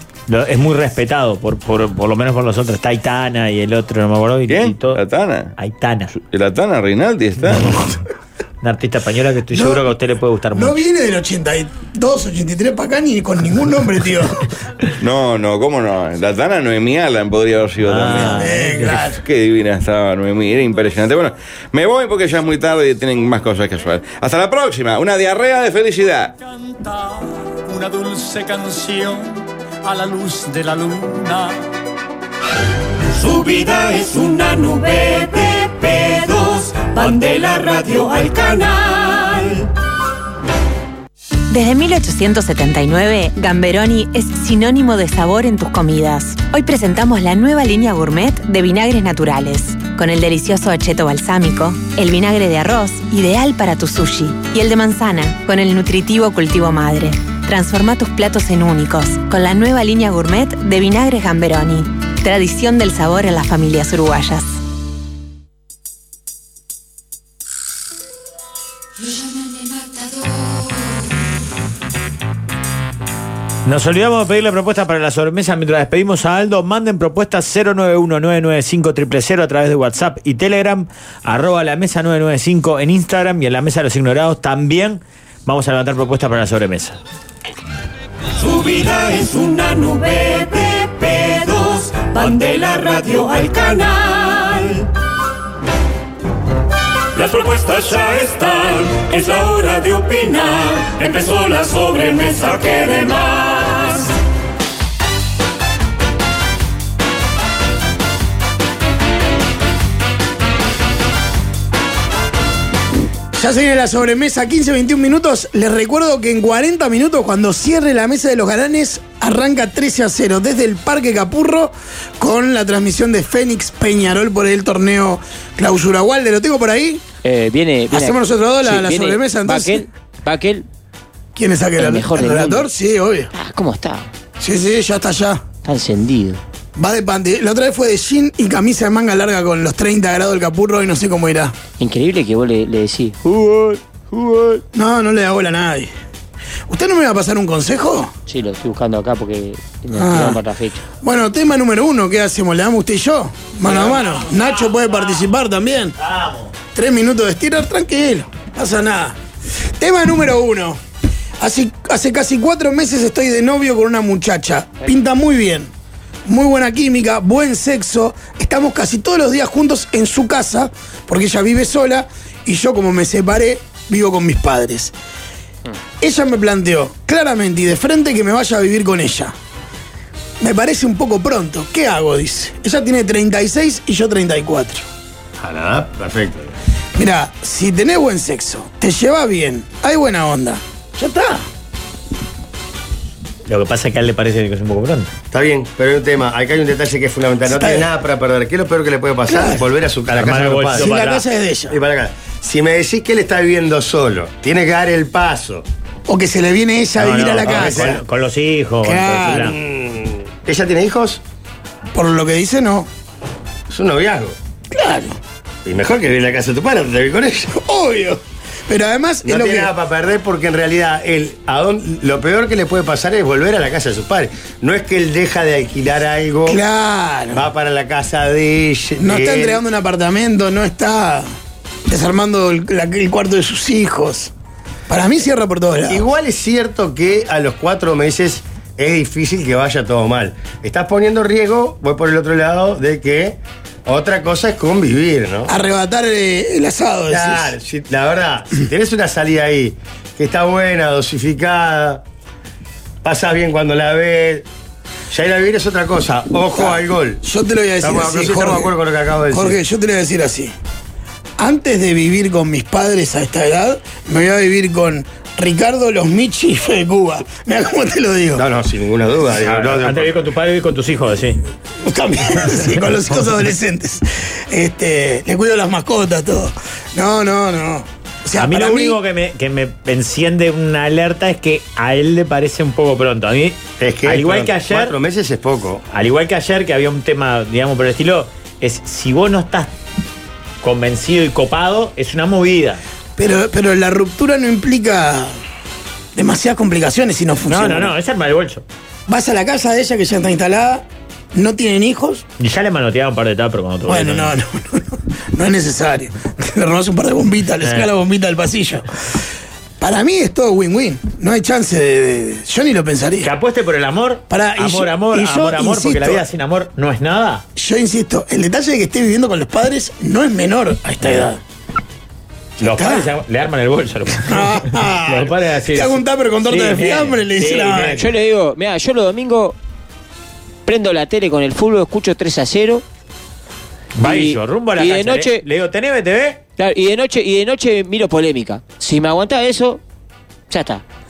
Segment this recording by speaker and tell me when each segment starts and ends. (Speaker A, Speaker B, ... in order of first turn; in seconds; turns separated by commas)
Speaker A: 0.3-5.0, Speaker B: 4.5-5.5, Speaker A: 5.6-6.1, Speaker B: 6.1-7.9, Speaker A: 8.6-10.8, Speaker C: 9.5-9.9, Speaker C: 10.5-14.5, Speaker B: 15.0-26.4, Speaker A: 17.8-19.0, Speaker C: 18.3-19.2, Speaker D: 26.4-31.7, Speaker E: 33.1-39.7, Speaker F: 41.5-64.6, Speaker A: 73.7-87.0, Speaker E: 88.4-94.9, Speaker E: 97.2-104.1, Speaker C: 113.3-127.0, Speaker G: 127.2-130.7, Speaker C: 127.9-129.8, Speaker C: 131.4-133.3, Speaker G: 131.8-132.7, Speaker G: 133.3-134.1, Speaker C: 134.4-135.4, Speaker G: 135.7-136.4, Speaker C: 136.8-141.6, Speaker G: 141.8-144.6, Speaker C: 144.7-145.9, Speaker C: 146.7-148.1, Speaker G: 148.3-150.8, Speaker C: 149.9-150.4, Speaker C: 151.0-155.9, Speaker A: 153.7-155.3, Speaker A: 156.0-156.5, Speaker C: 156.7-159.2, Speaker C: 159.8-160.8, Speaker C: 161.4-165.7, Speaker C: 166.3-174.9, Speaker C: 176.0-179.3, Speaker C: 180.4-184.8, Speaker H: 185.4-186.5, Speaker C: 186.9-191.5, Speaker A: 193.5-195.1, Speaker H: 195.3-200.9, Speaker C: 197.5-197.9, Speaker C: 199.3-199.7, Speaker A: 200.1-201.2, Speaker C: 200.7-201.8, Speaker H: 201.7-205.7, Speaker C: 206.1-208.0, Speaker A: 207.0-209.6, Speaker H: 207.4-208.0, Speaker C: 208.8-209.6, Speaker H: 209.3-211.2, Speaker C: 211.9-212.9, Speaker H: 213.7-214.4, Speaker C: 214.7-215.2, Speaker H: 215.7-217.6, Speaker C: 217.5-219.7, Speaker H: 219.2-226.6, Speaker C: 226.5-227.5, Speaker H: 227.3-229.6, Speaker C: 229.0-231.3, Speaker C: 231.9-234.3, Speaker C: 234.9-236.1, Speaker H: 235.9-245.5, Speaker C: 245.5-247.6, Speaker H: 247.1-252.0, Speaker H: 253.0-254.5, Speaker H: 255.1-257.2, Speaker C: 256.5-258.8, Speaker H: 257.8-259.6, Speaker C: 259.3-260.5, Speaker C: 261.4-268.4, Speaker H: 268.4-270.1, Speaker A: 269.4-271.4, Speaker C: 271.8-279.0, Speaker A: 278.4-285.0, Speaker H: 283.8-285.8, Speaker A: 285.9-289.7, Speaker A: 290.6-292.8, Speaker C: 293.2-295.4, Speaker C: 296.1-297.9, Speaker A: 297.5-298.6, Speaker C: 299.1-302.2, Speaker A: 302.4-304.3, Speaker C: 303.9-308.9, Speaker A: 307.6-307.9, Speaker C: 309.8-313.3, Speaker A: 313.2-317.4, Speaker C: 314.3-316.2, Speaker C: 317.6-321.4, Speaker A: 322.6-328.1, Speaker C: 322.6-323.1, Speaker C: 324.2-328.1, Speaker G: 328.0-329.6, Speaker G: 330.7-332.8, Speaker A: 334.0-336.4, Speaker G: 334.0-335.4, Speaker G: 336.6-339.8, Speaker G: 340.5-340.8